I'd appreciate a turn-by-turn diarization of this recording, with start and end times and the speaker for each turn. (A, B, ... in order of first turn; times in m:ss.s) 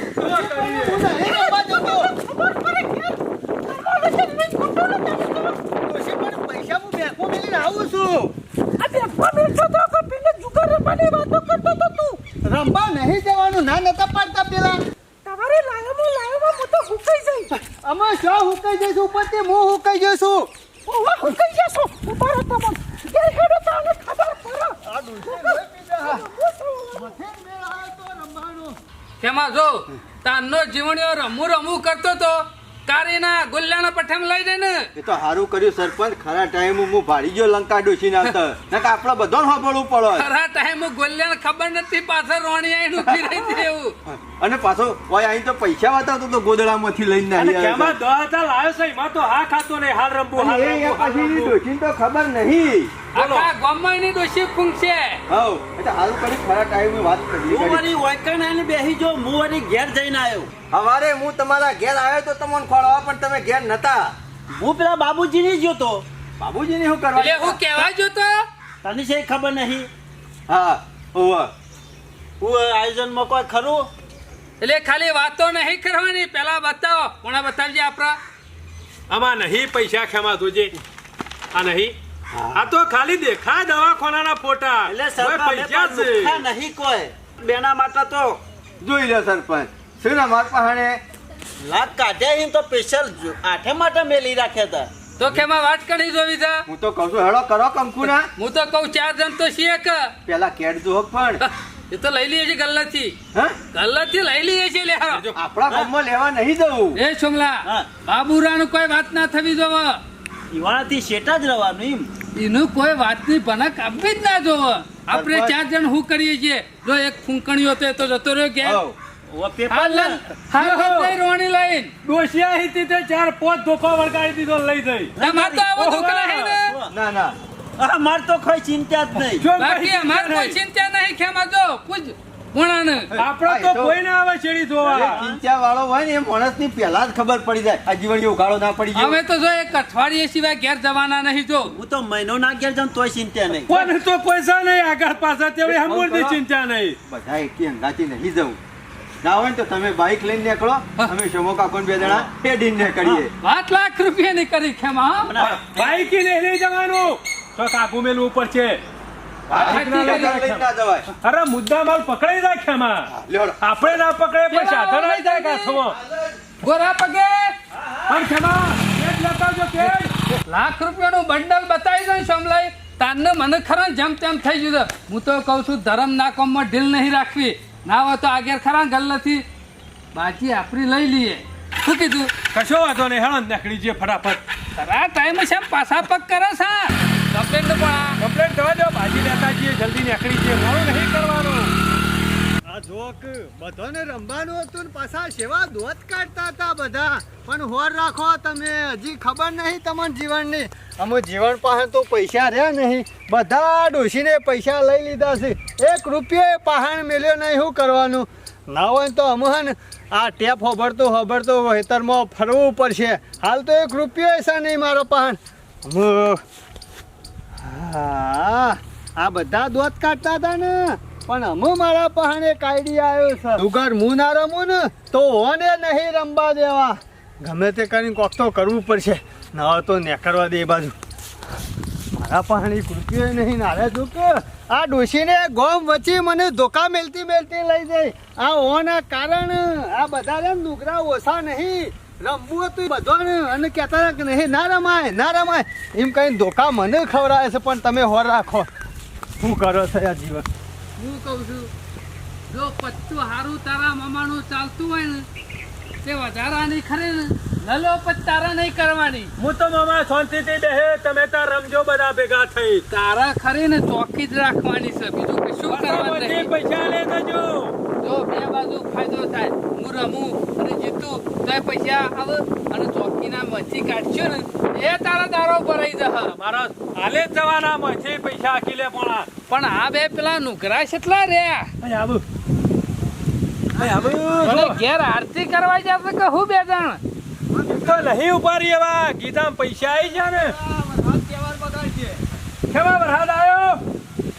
0:00.2-0:01.0 A
0:00.2-0:02.1 B
0:01.1-0:05.6 C
0:05.7-0:08.3 B
0:08.8-0:12.2 C
0:12.4-0:14.8 B
0:15.2-0:17.5 C
0:17.6-0:20.5 B
0:20.9-0:27.1 C
0:24.8-0:26.2 B
0:26.9-0:28.8 B
0:29.2-0:34.9 D
0:35.0-0:40.3 E
0:40.1-0:44.0 D
0:43.0-0:48.0 E
0:47.4-0:51.5 A
0:50.3-0:53.0 E
0:53.1-0:55.2 D
0:53.1-0:53.5 A
0:55.3-0:57.9 E
0:57.5-1:00.5 F
1:00.7-1:04.1 E
1:04.5-1:06.0 F
1:06.4-1:07.8 E
1:07.2-1:08.4 D
1:08.8-1:09.9 F
1:10.5-1:11.5 E
1:12.4-1:13.9 F
1:14.6-1:18.2 D
1:19.1-1:20.7 A
1:21.5-1:21.9 A
1:22.3-1:22.6 F
1:22.5-1:26.4 A
1:24.8-1:28.4 F
1:28.8-1:31.0 E
1:31.6-1:34.9 F
1:35.2-1:36.6 D
1:36.7-1:38.3 E
1:38.4-1:40.1 D
1:40.2-1:41.4 E
1:41.4-1:43.2 D
1:43.7-1:45.3 D
1:45.2-1:47.0 E
1:47.0-1:50.0 D
1:50.5-1:52.1 F
1:52.4-1:58.8 D
1:55.1-1:55.6 E
1:58.6-1:59.0 E
1:59.3-2:00.2 F
1:59.7-2:01.9 D
2:00.6-2:01.1 A
2:02.0-2:05.2 A
2:05.2-2:05.7 F
2:05.2-2:06.7 D
2:05.7-2:06.6 A
2:06.7-2:06.9 F
2:06.9-2:07.4 E
2:07.8-2:09.5 F
2:09.3-2:10.6 A
2:09.6-2:13.1 D
2:13.1-2:14.0 E
2:13.2-2:15.2 A
2:14.8-2:19.2 E
2:14.8-2:15.4 F
2:18.9-2:21.7 D
2:21.7-2:23.9 F
2:23.7-2:27.0 A
2:25.6-2:26.4 E
2:27.1-2:28.6 E
2:29.2-2:33.3 E
2:33.4-2:35.3 D
2:35.2-2:36.1 F
2:35.4-2:38.8 A
2:39.5-2:41.0 E
2:39.5-2:43.1 A
2:39.6-2:40.4 D
2:43.1-2:43.6 E
2:43.6-2:46.0 A
2:44.5-2:45.8 D
2:45.8-2:46.4 E
2:46.6-2:47.5 D
2:48.1-2:50.1 A
2:50.5-2:59.4 D
3:00.1-3:02.3 D
3:02.5-3:04.4 A
3:04.8-3:08.2 D
3:08.2-3:11.7 A
3:12.7-3:36.4 B
3:37.6-3:50.9 B
3:52.1-4:08.7 B
4:09.4-4:10.4 B
4:11.0-4:11.7 D
4:12.5-4:15.2 D
4:16.0-4:19.3 D
4:19.4-4:22.8 A
4:22.9-4:26.5 D
4:25.6-4:27.7 A
4:28.0-4:36.4 D
4:36.3-4:39.3 A
4:39.5-4:41.7 D
4:41.8-4:42.2 A
4:43.7-4:44.8 A
4:43.8-4:44.5 B
4:44.4-4:47.0 D
4:47.6-4:50.6 A
4:47.7-4:48.0 E
4:50.0-4:52.2 E
4:52.7-4:53.8 A